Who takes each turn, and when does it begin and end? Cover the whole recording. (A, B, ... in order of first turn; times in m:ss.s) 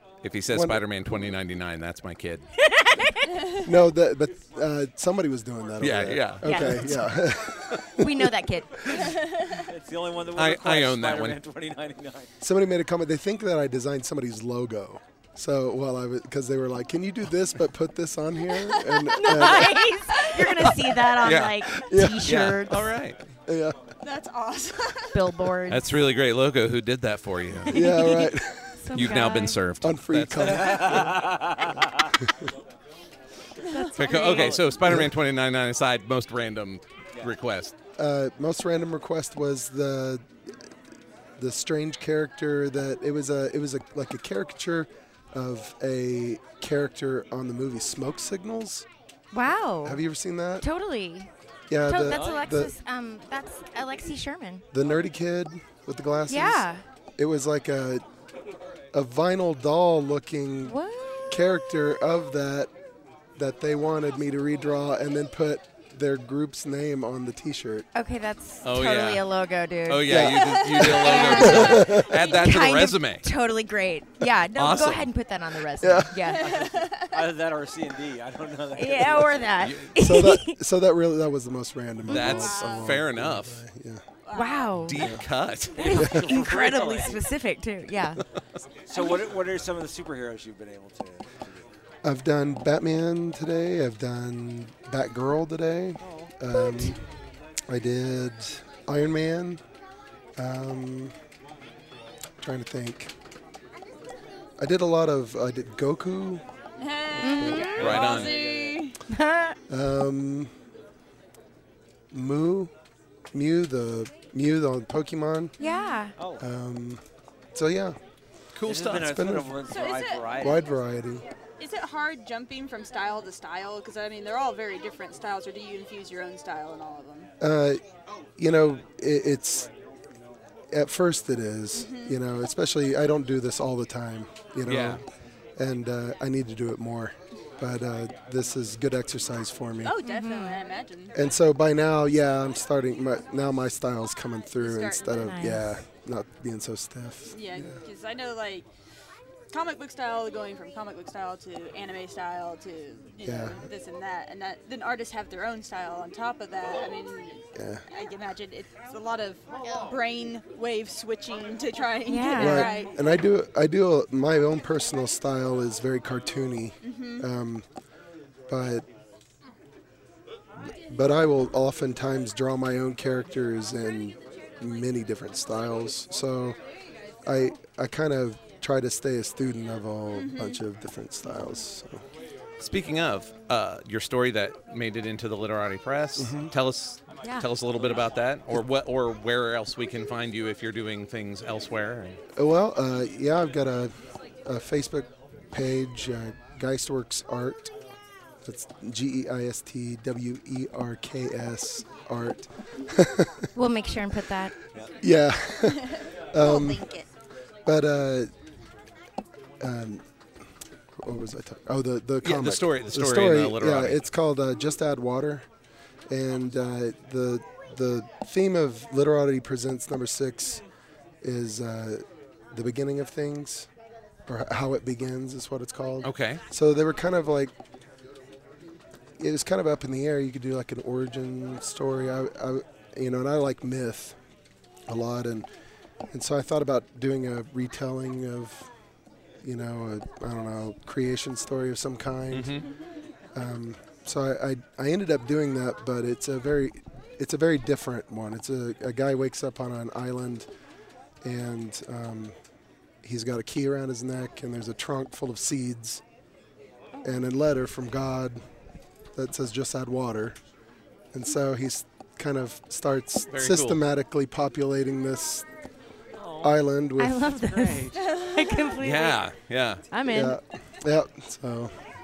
0:00.2-0:02.4 A
0:00.5-0:00.8 B
0:02.6-0:03.3 C
0:03.6-0:08.3 B
0:05.8-0:07.0 A
0:06.4-0:07.0 C
0:08.0-0:09.0 C
0:09.1-0:09.6 D
0:09.5-0:12.3 E
0:10.3-0:11.4 A
0:12.4-0:19.9 B
0:19.0-0:22.9 C
0:20.6-0:23.2 A
0:21.8-0:22.3 B
0:23.4-0:23.8 B
0:24.0-0:25.2 D
0:25.1-0:25.8 C
0:25.7-0:28.0 A
0:27.7-0:28.9 B
0:27.7-0:29.6 C
0:28.9-0:30.8 A
0:29.8-0:31.3 B
0:30.4-0:32.1 E
0:33.7-0:34.6 C
0:34.0-0:37.7 A
0:34.1-0:34.7 E
0:34.8-0:35.1 B
0:38.0-0:40.2 B
0:41.4-0:48.8 B
0:49.3-0:50.0 C
0:49.8-0:50.6 B
0:50.6-0:51.3 C
0:51.7-0:52.7 B
0:51.8-0:54.6 C
0:52.0-0:52.5 E
0:54.7-0:56.7 B
0:56.3-0:56.8 C
0:57.2-0:58.0 B
0:58.9-1:00.8 B
1:00.6-1:01.3 C
1:01.3-1:02.7 B
1:03.4-1:07.9 B
1:07.9-1:16.5 C
1:08.6-1:09.3 A
1:09.9-1:13.2 A
1:10.1-1:12.1 B
1:10.3-1:11.3 D
1:14.6-1:15.1 A
1:15.8-1:16.2 B
1:16.2-1:17.2 D
1:16.4-1:19.6 E
1:18.7-1:20.6 C
1:19.6-1:19.9 A
1:20.0-1:24.0 B
1:22.1-1:22.3 C
1:22.1-1:23.6 A
1:22.2-1:23.0 D
1:24.2-1:24.8 D
1:24.3-1:25.2 C
1:24.8-1:26.0 A
1:25.0-1:25.2 B
1:25.8-1:27.2 E
1:25.8-1:28.2 C
1:28.9-1:31.6 E
1:32.0-1:37.0 B
1:36.0-1:36.3 E
1:36.5-1:36.9 C
1:37.7-1:39.6 B
1:40.4-1:41.1 B
1:42.4-1:43.1 B
1:44.6-1:46.4 B
1:46.8-1:49.0 D
1:47.1-1:47.8 B
1:47.2-1:47.8 C
1:47.7-1:48.8 E
1:47.8-1:48.3 A
1:49.1-1:49.6 C
1:49.7-1:50.5 B
1:52.1-1:52.7 B
1:53.3-1:55.6 B
1:55.6-1:56.1 C
1:55.6-1:56.0 D
1:56.1-1:56.4 E
1:56.4-1:57.0 B
1:57.5-1:58.0 B
1:58.5-1:59.1 A
1:58.6-2:00.6 E
1:59.0-1:59.6 B
1:59.7-2:00.8 D
2:00.4-2:01.2 B
2:01.6-2:07.3 D
2:07.4-2:07.8 B
2:08.4-2:09.7 B
2:10.7-2:15.0 B
2:11.7-2:12.2 D
2:14.6-2:15.0 A
2:15.6-2:20.0 B
2:19.8-2:21.1 D
2:20.0-2:20.6 C
2:21.1-2:27.8 B
2:24.6-2:25.5 D
2:25.1-2:25.8 C
2:27.3-2:28.7 D
2:29.5-2:43.0 D
2:33.2-2:33.6 B
2:37.6-2:37.8 B
2:42.0-2:42.8 C
2:42.4-2:47.6 B
2:46.8-2:47.3 D
2:48.5-2:48.8 B
2:50.9-2:56.6 B
2:57.2-3:02.0 B
3:00.1-3:00.6 D
3:02.6-3:12.2 A
3:06.2-3:06.5 B
3:07.2-3:07.5 C
3:12.4-3:17.7 B
3:18.4-3:23.4 B
3:23.5-3:24.5 C
3:25.0-3:26.9 B
3:25.6-3:27.1 D
3:27.6-3:28.3 B
3:29.6-3:30.0 B
3:31.0-3:35.4 B
3:32.2-3:34.0 A
3:36.1-3:40.6 B
3:41.2-3:43.7 B
3:44.2-3:47.5 B
3:46.0-3:46.4 A
3:49.2-3:54.2 B
3:54.9-3:55.5 B
3:56.1-3:58.7 B
3:59.4-4:02.7 B
4:02.3-4:02.7 A
4:03.3-4:10.5 B
4:11.2-4:12.4 B
4:13.0-4:16.0 B
4:17.0-4:17.2 D
4:17.0-4:18.4 B
4:19.1-4:20.4 B
4:21.1-4:25.4 B
4:23.3-4:23.8 A
4:26.2-4:26.6 E
4:26.4-4:27.3 B
4:27.0-4:29.2 C
4:27.3-4:28.0 E
4:28.0-4:28.8 D
4:28.8-4:29.8 A
4:29.9-4:30.4 C
4:30.0-4:31.8 B